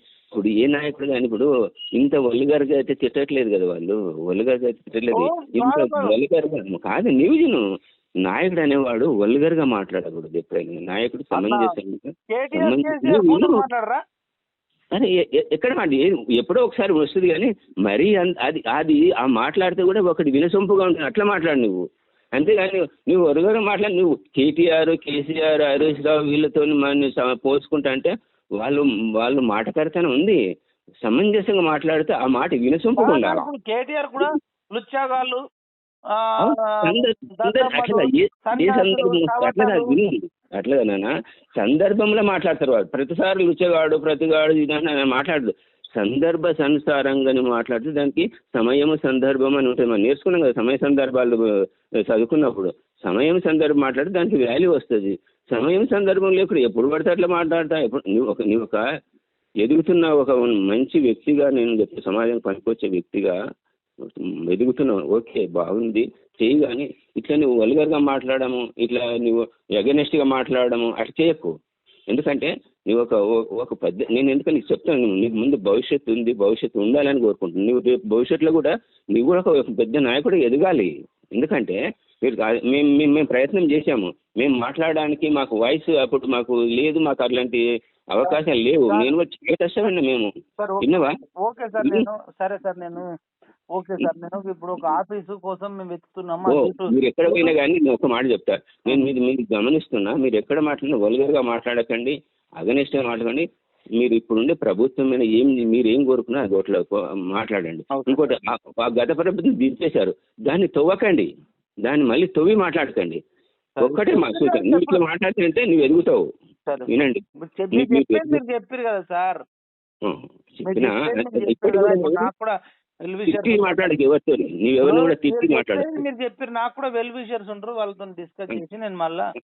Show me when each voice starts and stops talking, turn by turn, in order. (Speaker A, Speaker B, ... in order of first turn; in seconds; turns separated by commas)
Speaker A: 0.3-1.5, Speaker A: 2.0-7.6, Speaker B: 5.2-6.1, Speaker A: 8.3-13.7, Speaker B: 11.3-11.7, Speaker B: 12.3-14.0, Speaker A: 14.9-21.8, Speaker A: 22.4-30.4, Speaker A: 31.0-33.5, Speaker B: 33.0-35.4, Speaker B: 36.2-39.9, Speaker A: 36.4-41.1, Speaker A: 41.6-51.4, Speaker A: 52.1-58.8, Speaker A: 59.6-63.3, Speaker A: 64.0-71.5, Speaker A: 72.1-87.6, Speaker A: 88.1-90.3, Speaker B: 88.2-89.1, Speaker B: 90.6-91.0, Speaker A: 90.8-91.1, Speaker B: 91.5-93.0, Speaker A: 91.8-92.1, Speaker B: 93.8-97.6, Speaker A: 96.5-103.5, Speaker A: 104.0-111.3, Speaker B: 107.9-108.4, Speaker A: 111.9-113.2, Speaker B: 113.8-115.0, Speaker A: 113.8-116.2, Speaker A: 116.9-117.2, Speaker B: 117.4-119.4, Speaker A: 117.7-118.4, Speaker A: 120.0-122.3, Speaker B: 120.6-122.5, Speaker B: 123.1-123.9, Speaker A: 123.3-126.0, Speaker B: 124.8-129.2